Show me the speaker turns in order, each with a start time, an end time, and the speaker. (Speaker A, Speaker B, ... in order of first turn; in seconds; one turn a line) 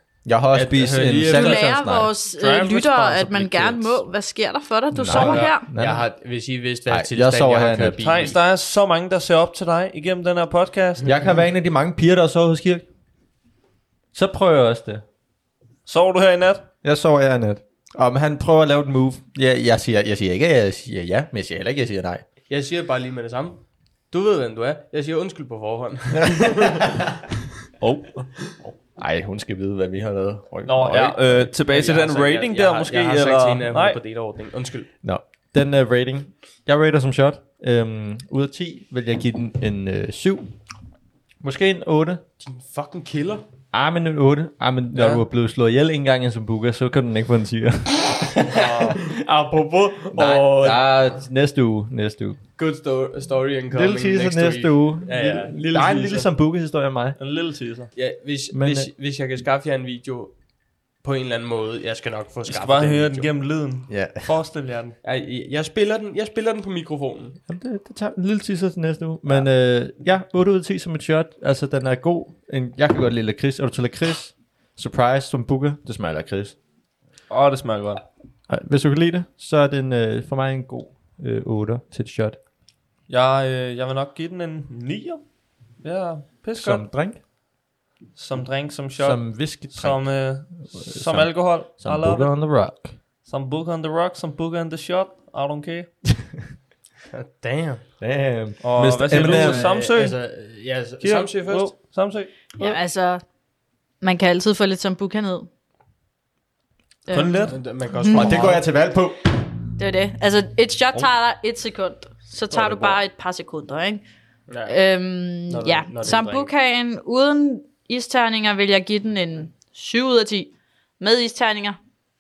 Speaker A: 0.2-2.1
Speaker B: 0.5-1.6
Speaker C: 1.0-1.6
Speaker D: 1.2-5.7
Speaker C: 2.3-4.0
Speaker A: 4.9-6.1
Speaker B: 5.1-8.4
Speaker A: 6.9-8.1
Speaker C: 8.0-11.2
Speaker A: 11.0-12.8
Speaker A: 14.1-15.0
Speaker C: 15.9-16.7
Speaker A: 16.8-22.2
Speaker B: 22.5-27.1
Speaker A: 26.3-26.9
Speaker C: 27.8-28.3
Speaker A: 28.9-31.5
Speaker C: 30.6-34.0
Speaker B: 31.6-34.9
Speaker A: 35.0-40.5
Speaker A: 41.4-42.2
Speaker B: 42.4-43.5
Speaker A: 43.7-48.7
Speaker C: 48.5-49.0
Speaker B: 48.5-51.0
Speaker A: 50.1-52.4
Speaker B: 52.6-56.3
Speaker A: 53.7-57.2
Speaker C: 57.2-57.9
Speaker B: 58.0-60.4
Speaker A: 58.5-58.9
Speaker B: 61.0-63.3
Speaker C: 62.5-65.0
Speaker A: 63.9-64.3
Speaker B: 65.0-67.4
Speaker A: 67.5-76.6
Speaker C: 77.3-78.0
Speaker A: 78.5-82.4
Speaker C: 83.1-85.2
Speaker C: 85.8-86.9
Speaker A: 86.6-87.2
Speaker C: 88.2-92.3
Speaker A: 89.0-93.0
Speaker C: 93.2-95.9
Speaker B: 97.1-97.8
Speaker A: 98.0-99.7
Speaker C: 98.6-100.2
Speaker B: 99.1-101.7
Speaker C: 101.0-102.8
Speaker D: 102.6-103.2
Speaker D: 104.0-105.5
Speaker D: 107.1-108.5
Speaker C: 107.1-107.6
Speaker B: 107.4-108.7
Speaker A: 108.1-109.2
Speaker D: 109.8-114.0
Speaker B: 112.5-113.0
Speaker B: 114.5-114.8
Speaker D: 114.7-121.8
Speaker B: 115.5-116.5